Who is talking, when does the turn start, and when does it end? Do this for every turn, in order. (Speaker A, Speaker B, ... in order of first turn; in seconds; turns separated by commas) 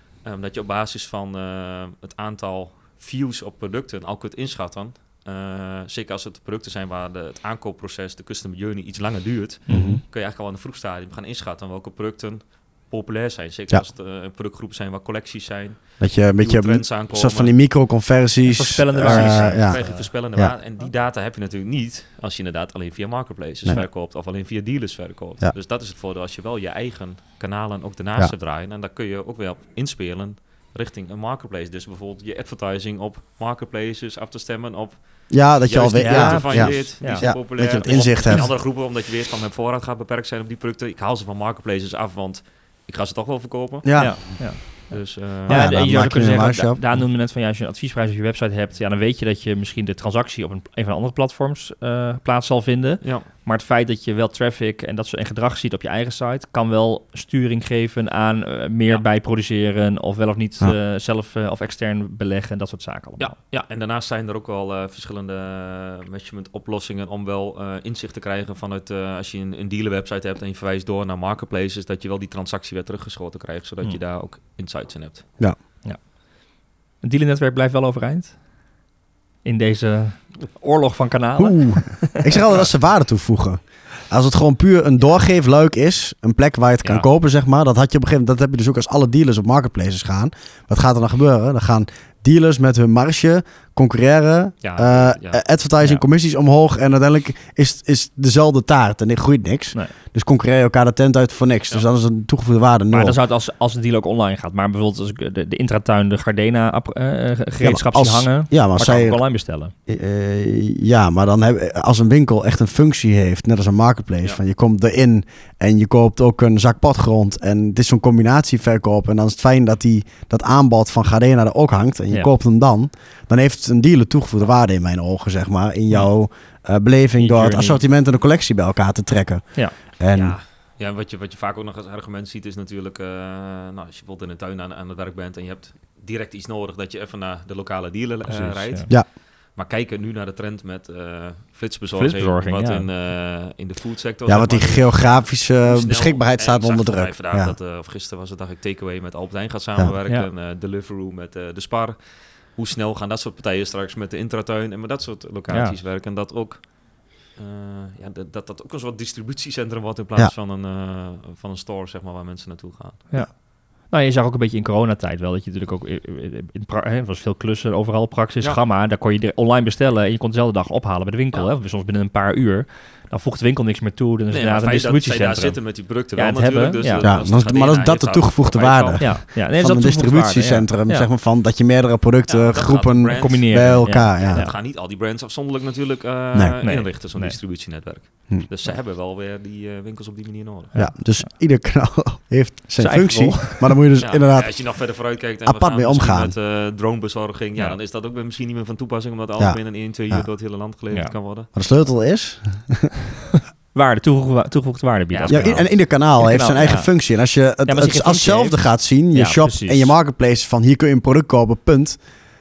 Speaker A: 0.2-17.6, Speaker B: 9.7-10.0, Speaker C: 9.7-10.0, Speaker C: 16.0-20.5, Speaker B: 18.4-20.1, Speaker A: 19.0-45.8, Speaker C: 35.3-38.6, Speaker B: 36.0-37.3, Speaker C: 43.8-44.8, Speaker B: 44.0-63.4, Speaker C: 45.5-47.0, Speaker A: 53.0-53.3, Speaker A: 63.2-75.3, Speaker B: 75.8-78.5, Speaker B: 79.4-82.6, Speaker C: 81.4-103.2, Speaker A: 94.6-95.4, Speaker B: 102.9-109.7, Speaker C: 107.6-109.2, Speaker C: 109.9-130.4, Speaker B: 127.2-127.8, Speaker A: 130.1-163.1, Speaker B: 138.3-138.9, Speaker B: 141.9-142.9, Speaker C: 144.3-147.6, Speaker B: 155.5-155.8, Speaker B: 163.1-177.1, Speaker A: 174.3-179.1, Speaker C: 177.0-184.5, Speaker B: 179.0-181.1, Speaker A: 182.3-190.8, Speaker B: 183.2-184.6, Speaker B: 186.6-187.4, Speaker B: 190.7-191.3, Speaker C: 190.8-194.9, Speaker B: 192.8-193.8, Speaker A: 194.0-201.5, Speaker C: 195.4-196.3, Speaker C: 199.4-200.3, Speaker B: 200.9-201.2, Speaker C: 201.5-202.9, Speaker B: 203.7-207.0, Speaker A: 205.1-205.6, Speaker C: 205.3-212.0, Speaker B: 207.7-209.9